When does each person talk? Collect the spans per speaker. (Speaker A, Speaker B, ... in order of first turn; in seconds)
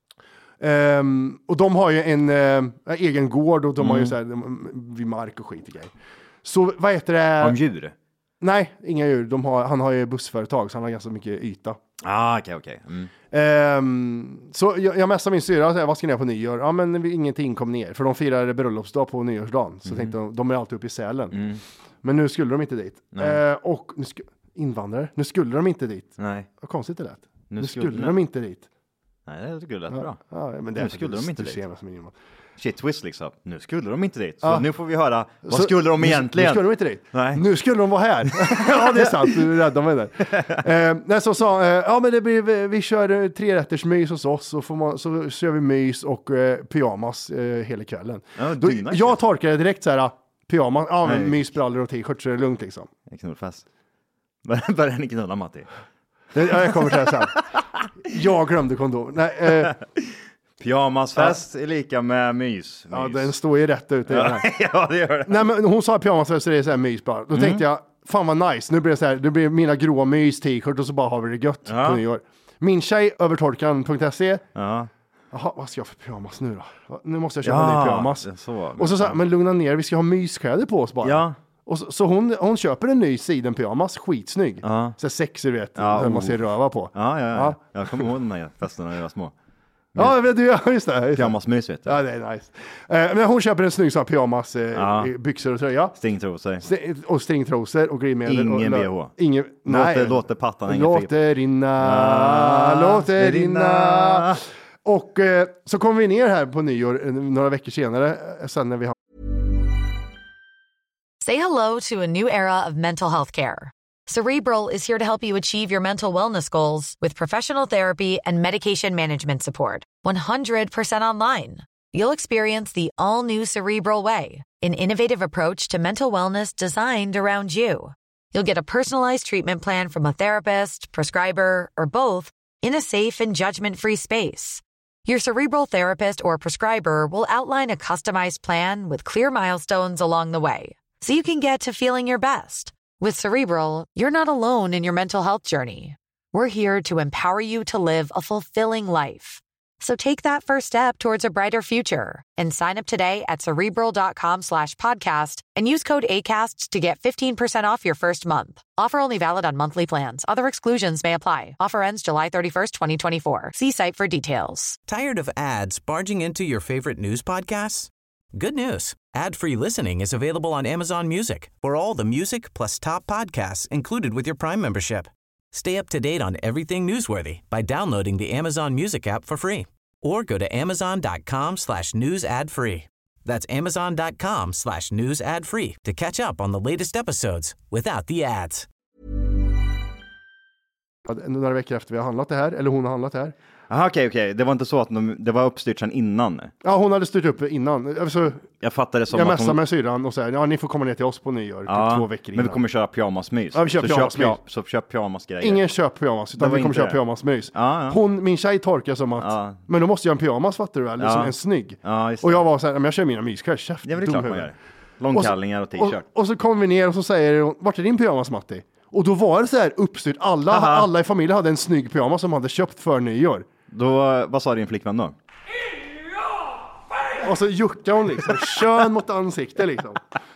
Speaker A: 0.6-5.9, 6.4-7.6, 8.4-11.8, 13.3-21.4, 22.0-28.6, 29.9-32.1, 35.4-52.9, 56.3-57.3, 58.1-59.8, 62.9-64.4, 65.2-74.4, 75.3-78.2, 78.8-88.0, 90.0-96.0, 96.6-108.9, 191.1-193.3, 196.6-198.4, 199.1-202.6, 203.5-204.4, 205.4-214.5, 215.1-223.4, 227.2-230.0
Speaker B: 3.8-4.2, 7.4-7.9, 12.0-13.1, 19.9-20.1, 21.3-21.6, 23.1-23.4, 26.2-26.5, 27.5-28.1, 29.3-30.2, 30.7-31.6, 32.6-37.4, 38.4-39.5, 48.4-49.2, 51.0-51.4, 53.1-53.6, 54.4-55.7, 56.6-57.4, 60.6-63.3, 64.1-65.5, 67.3-67.6, 71.7-72.0, 74.5-74.9, 77.4-79.2, 81.0-81.3, 84.6-85.0, 85.8-86.4, 86.9-89.3, 91.1-92.0, 94.7-95.1, 96.0-96.6, 98.2-99.1, 99.7-101.1, 101.8-104.4, 193.7-196.5, 198.6-199.6, 201.7-205.6, 206.4-207.0, 207.5-208.0, 209.2-209.6, 211.0-212.4, 213.8-216.0, 220.5-220.9, 223.7-225.1
Speaker C: 111.2-164.8
Speaker D: 164.9-188.7